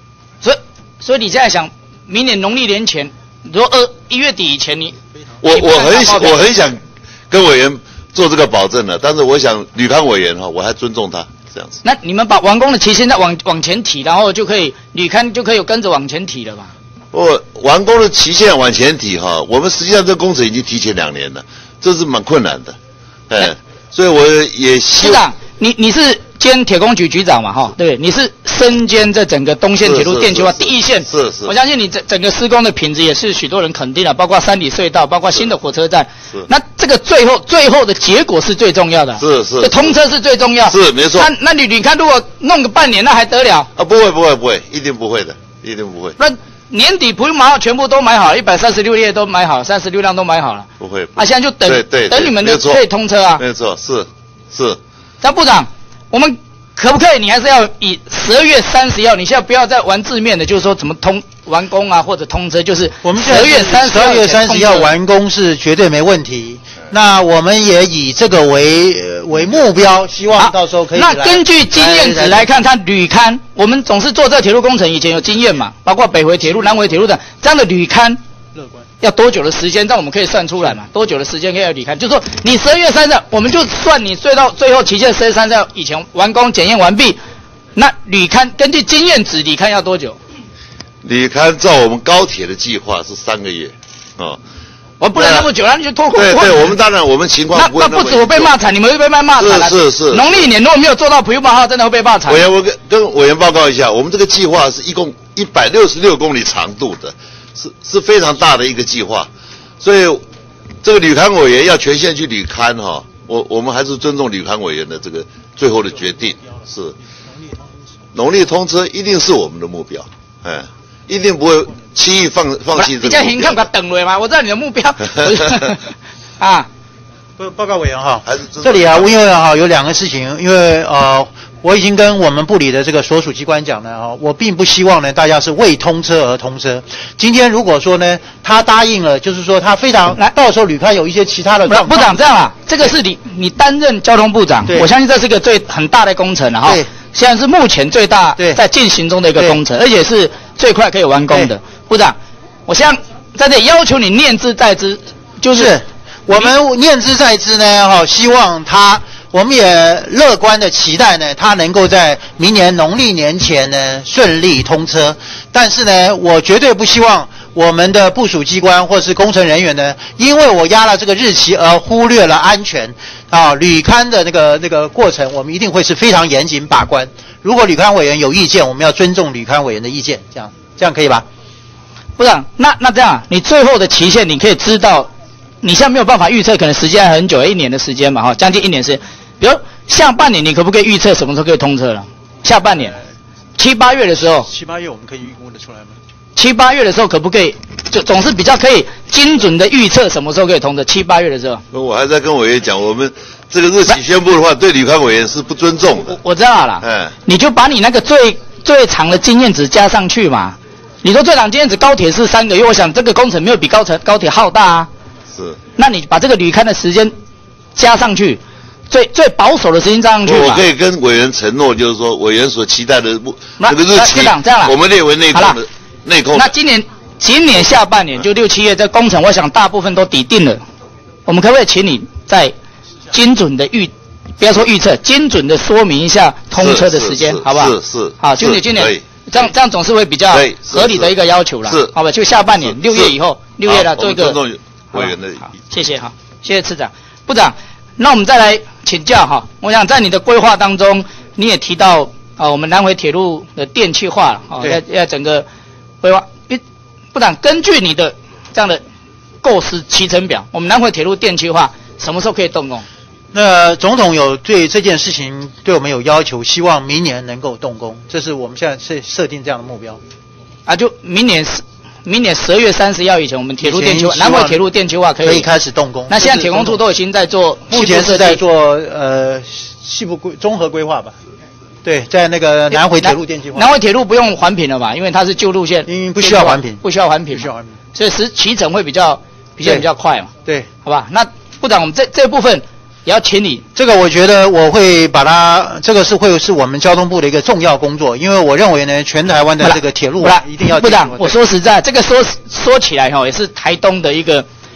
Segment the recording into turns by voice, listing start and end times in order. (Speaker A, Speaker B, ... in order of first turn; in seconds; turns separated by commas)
Speaker A: 0.4-5.0, Speaker B: 5.4-11.8, Speaker A: 5.5-6.5, Speaker A: 11.8-16.7, Speaker B: 17.1-22.8, Speaker B: 23.3-25.2, Speaker A: 25.0-43.7, Speaker B: 29.8-31.5, Speaker B: 39.2-40.0, Speaker B: 40.7-41.3, Speaker B: 43.8-46.2, Speaker A: 46.2-53.4, Speaker B: 50.8-52.8, Speaker B: 53.4-54.8, Speaker A: 55.2-64.9, Speaker C: 63.0-72.5, Speaker A: 70.4-78.2, Speaker A: 79.0-87.2, Speaker A: 87.8-90.2, Speaker B: 91.0-94.4, Speaker A: 95.0-96.7, Speaker B: 95.1-95.5, Speaker B: 96.1-98.5, Speaker A: 97.5-102.5, Speaker B: 99.4-100.5, Speaker B: 102.3-109.3, Speaker B: 109.8-110.2, Speaker B: 110.8-117.0, Speaker B: 118.1-123.6, Speaker A: 122.7-126.7, Speaker C: 127.4-142.2, Speaker B: 128.2-129.1, Speaker A: 141.7-152.2, Speaker A: 152.7-155.7, Speaker C: 155.5-181.2, Speaker A: 182.2-185.1, Speaker A: 185.6-193.0, Speaker A: 193.6-194.5, Speaker C: 194.4-195.9, Speaker A: 196.3-201.6, Speaker B: 201.7-206.2, Speaker A: 206.1-214.9, Speaker B: 206.8-207.1, Speaker A: 215.8-217.1, Speaker A: 217.8-220.7, Speaker B: 220.2-226.5, Speaker A: 223.6-224.7, Speaker A: 225.3-225.6, Speaker A: 226.3-230.6, Speaker A: 231.2-232.5, Speaker A: 233.1-244.4, Speaker B: 236.5-239.2, Speaker B: 240.3-241.1, Speaker B: 241.7-241.9, Speaker B: 242.6-243.1, Speaker B: 243.7-245.5, Speaker A: 244.9-255.4, Speaker A: 256.0-256.6, Speaker A: 257.1-258.8, Speaker A: 259.4-262.8, Speaker C: 263.3-270.0, Speaker A: 270.6-275.5, Speaker C: 273.6-274.6, Speaker C: 275.2-276.8, Speaker A: 276.1-278.4, Speaker C: 277.7-281.1, Speaker C: 281.8-283.7, Speaker A: 282.7-290.3, Speaker C: 285.9-286.8, Speaker C: 287.3-287.7, Speaker A: 290.8-293.6, Speaker C: 293.7-301.4, Speaker A: 299.6-304.4